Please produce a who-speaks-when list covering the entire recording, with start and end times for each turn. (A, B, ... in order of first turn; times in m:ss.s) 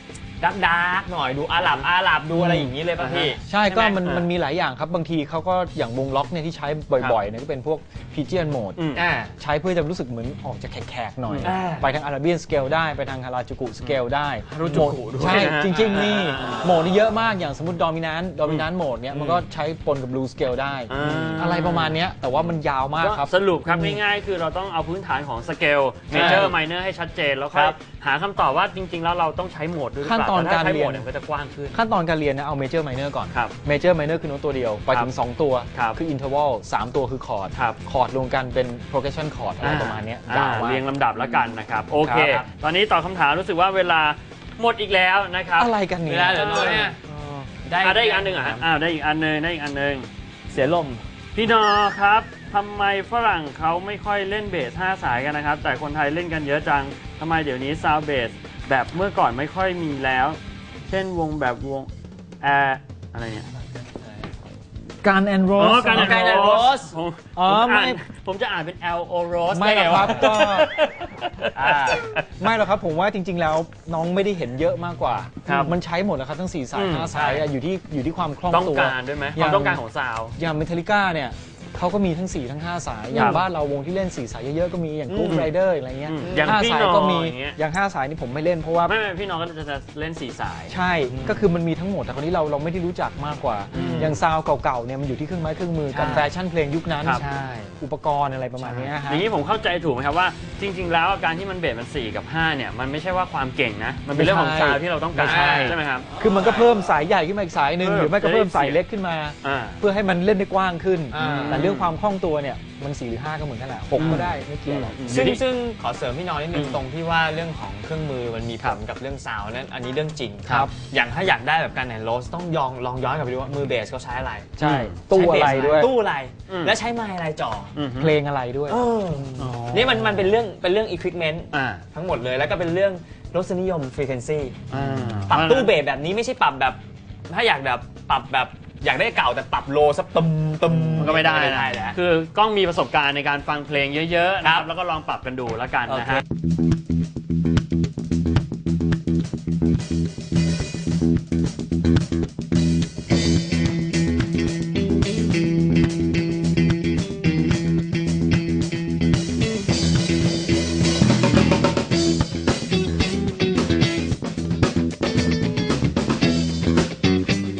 0:00.4-0:03.4 A
0:02.4-0:02.7 B
0:03.0-0:04.3 C
0:03.5-0:08.8 B
0:08.8-0:09.1 C
0:09.0-0:09.4 A
0:09.4-0:24.0 B
0:11.2-0:11.6 C
0:11.4-0:11.9 A
0:13.8-0:16.6 C
0:14.6-0:16.4 A
0:19.1-0:19.4 A
0:20.9-0:22.0 C
0:21.0-0:21.5 A
0:23.0-0:31.8 C
0:26.1-0:26.5 A
0:26.1-0:26.5 B
0:27.5-0:27.8 A
0:30.0-0:31.0 B
0:31.7-0:40.8 B
0:35.7-0:36.0 C
0:37.5-0:37.8 C
0:39.6-0:45.7 C
0:42.0-0:42.5 A
0:45.6-0:47.3 B
0:46.1-0:48.6 A
0:46.3-0:46.9 C
0:47.8-0:50.1 C
0:50.5-0:51.0 A
0:51.3-1:01.9 C
1:02.4-1:03.5 C
1:05.0-1:06.6 B
1:05.6-1:12.3 C
1:05.9-1:06.9 A
1:07.4-1:08.0 B
1:09.5-1:10.7 B
1:09.9-1:10.4 A
1:11.5-1:12.1 A
1:12.4-1:19.8 B
1:15.4-1:15.7 C
1:16.7-1:17.4 C
1:18.5-1:20.4 C
1:20.4-1:29.0 B
1:23.1-1:23.4 C
1:25.1-1:25.5 A
1:26.0-1:27.6 C
1:26.2-1:26.6 A
1:28.8-1:30.8 C
1:30.7-1:37.2 B
1:31.1-1:31.5 A
1:33.7-1:34.1 C
1:33.7-1:34.2 A
1:35.9-1:36.3 A
1:37.2-1:37.8 A
1:37.8-1:39.3 B
1:38.6-1:38.9 A
1:38.6-1:46.1 C
1:44.1-1:55.4 B
1:45.3-1:45.8 A
1:47.8-1:48.8 C
1:49.4-1:49.8 C
1:51.1-1:51.7 A
1:51.2-1:51.9 C
1:54.0-1:55.4 C
1:54.0-1:54.4 A
1:55.1-2:04.6 A
1:56.5-1:56.8 C
2:00.5-2:00.7 B
2:04.6-2:05.9 B
2:04.6-2:05.0 C
2:05.1-2:07.8 A
2:06.5-2:06.8 C
2:07.8-2:08.2 C
2:08.0-2:08.8 B
2:08.7-2:22.0 A
2:09.4-2:10.3 C
2:11.5-2:11.8 C
2:14.7-2:15.8 C
2:20.9-2:26.2 C
2:25.9-2:26.2 A